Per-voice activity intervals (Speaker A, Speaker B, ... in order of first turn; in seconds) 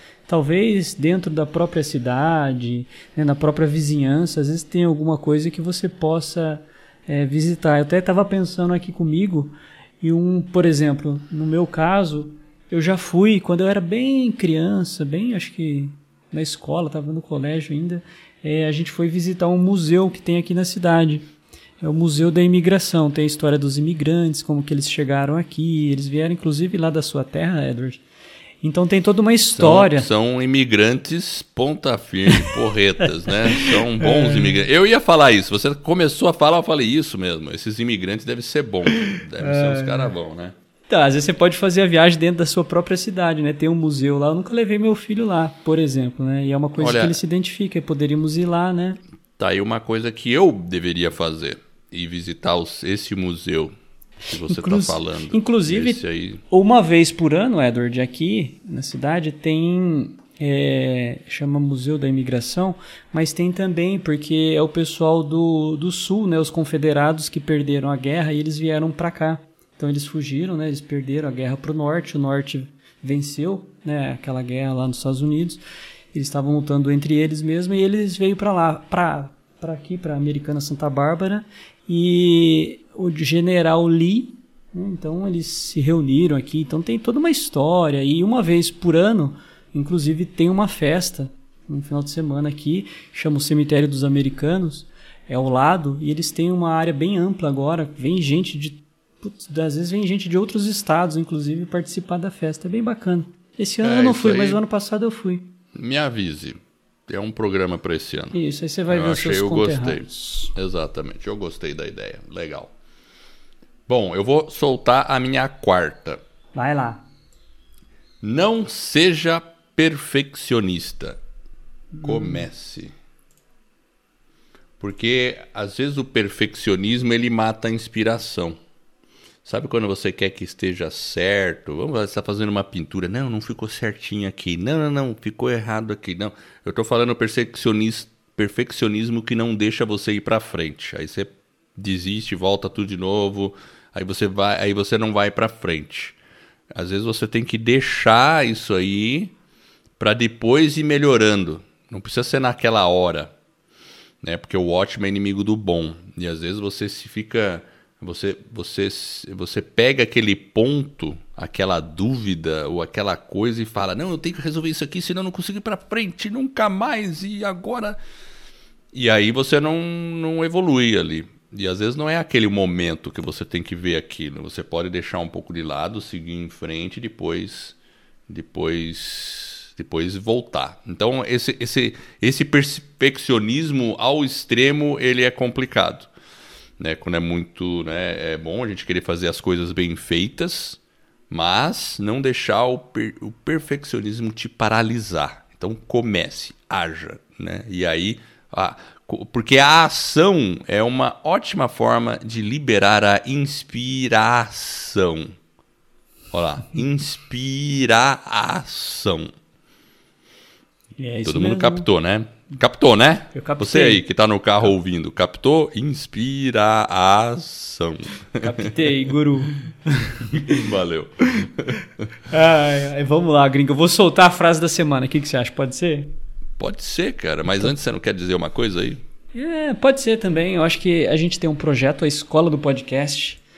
Speaker A: 0.3-21.3, 21.8-28.0, 28.6-30.1, 33.3-34.7, 39.4-40.1, 40.9-49.0, 54.4-75.6, 76.1-105.5, 108.3-110.5, 116.5-117.0, 121.9-122.4, 211.0-211.9, 213.3-214.0, 218.4-220.7, 222.3-226.1, 229.3-233.4
Speaker B: 29.6-40.5, 46.8-47.2, 49.4-53.7, 54.3-56.4, 103.8-104.6, 105.7-108.4, 108.9-112.7, 113.9-116.2, 118.2-121.2, 122.0-122.9, 124.8-128.6, 129.4-146.2, 146.8-149.3, 150.0-153.3, 154.2-168.0, 168.9-177.8, 178.3-186.1, 186.8-190.8, 191.3-205.3, 206.3-209.3, 211.2-218.9, 220.2-222.1, 226.6-229.0